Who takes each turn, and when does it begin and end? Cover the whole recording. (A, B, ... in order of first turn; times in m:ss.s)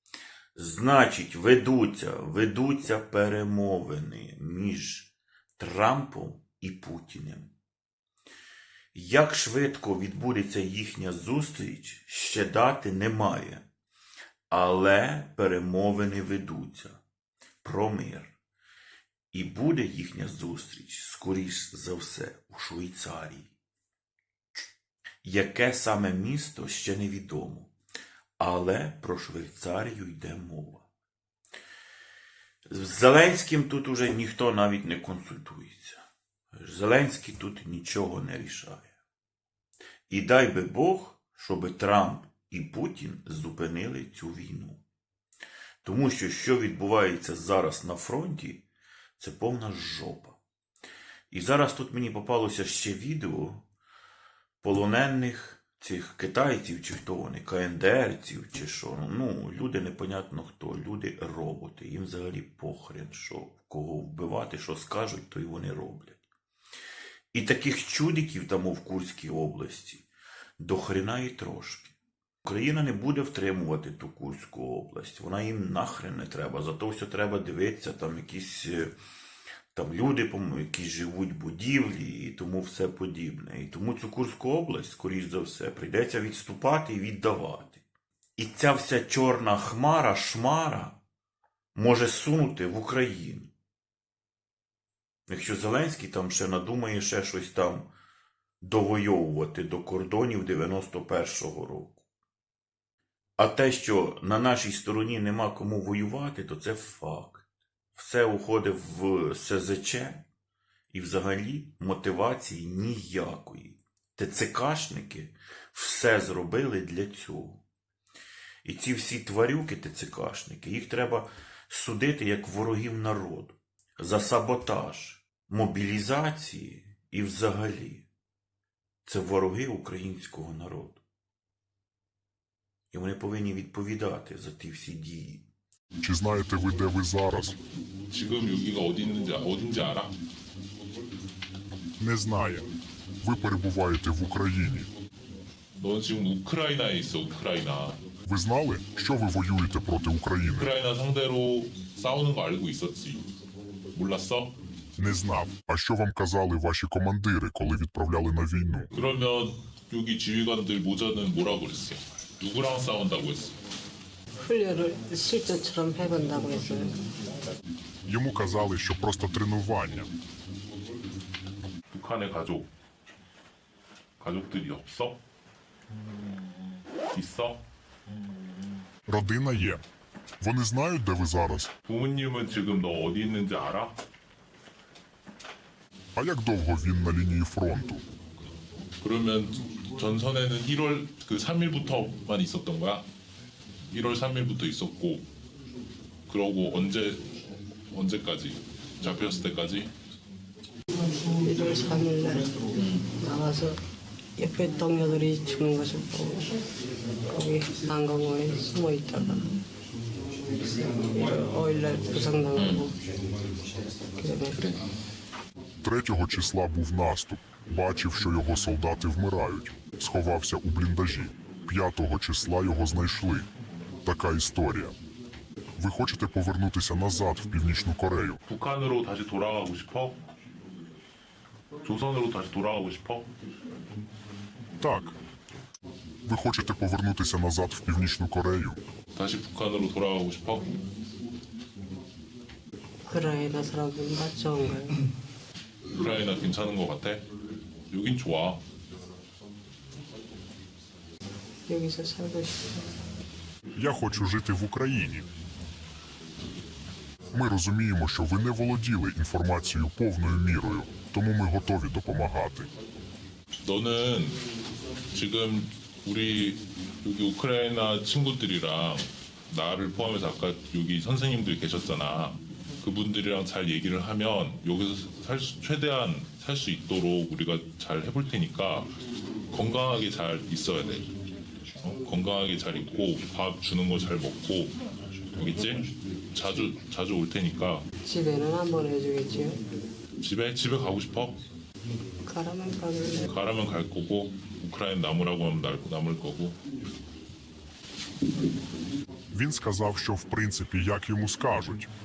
0:00.6-0:07.5 A
0:08.9-0:13.6 A
0:14.5-0:17.0 A
0:17.6-0:18.3 A
0:19.3-0:23.5 A
0:25.2-0:27.7 A
0:28.4-0:30.8 A
0:32.7-0:36.0 A
0:36.5-0:38.9 A
0:40.1-0:44.8 A
0:45.8-0:48.6 A
0:49.2-0:50.4 A
0:51.3-0:53.6 A
0:54.6-1:06.2 A
1:07.3-1:10.0 A
1:10.6-1:18.9 A
1:19.7-1:27.8 A
1:28.4-1:31.0 A
1:31.8-1:33.5 A
1:35.3-1:37.9 A
1:38.6-1:42.0 A
1:43.4-1:47.4 A
1:47.9-1:50.3 A
1:50.9-1:57.6 A
1:58.6-2:08.1 A
2:09.0-2:11.0 A
2:12.9-2:15.5 A
2:16.0-2:17.6 B
2:18.1-2:20.2 C
2:22.0-2:22.7 B
2:23.2-2:24.9 B
2:25.8-2:28.0 C
2:28.3-2:30.7 B
2:30.5-2:33.3 C
2:33.9-2:34.6 C
2:35.0-2:38.9 B
2:38.9-2:43.6 C
2:44.4-2:47.1 D
2:48.1-2:50.1 B
2:51.9-2:52.7 C
2:54.2-2:55.2 C
2:57.1-2:57.6 C
2:59.1-2:59.8 B
3:00.4-3:01.7 B
3:01.8-3:04.0 C
3:06.2-3:08.0 B
3:09.0-3:13.1 C
3:13.9-3:15.3 C
3:16.3-3:17.3 C
3:17.9-3:19.9 C
3:21.4-3:23.8 D
3:24.4-3:26.5 D
3:27.3-3:29.5 D
3:30.5-3:33.0 D
3:34.2-3:34.6 D
3:35.8-3:43.5 B
3:44.0-3:45.0 B
3:45.8-3:48.4 B
3:48.5-3:50.2 C
3:51.8-3:53.3 C
3:54.8-3:55.2 B
3:56.3-3:58.8 B
3:59.2-4:00.8 C
4:03.0-4:05.1 D
4:05.9-4:07.3 C
4:07.9-4:08.6 C
4:11.7-4:12.9 D
4:13.8-4:15.3 B
4:17.3-4:22.7 B
4:23.6-4:24.4 C
4:25.1-4:38.9 C
4:39.5-4:41.1 C
4:41.8-4:44.8 C
4:45.4-4:47.9 C
4:48.0-4:49.6 D
4:50.2-4:51.4 C
4:52.2-4:53.3 D
4:53.3-4:56.6 C
4:59.3-5:01.9 B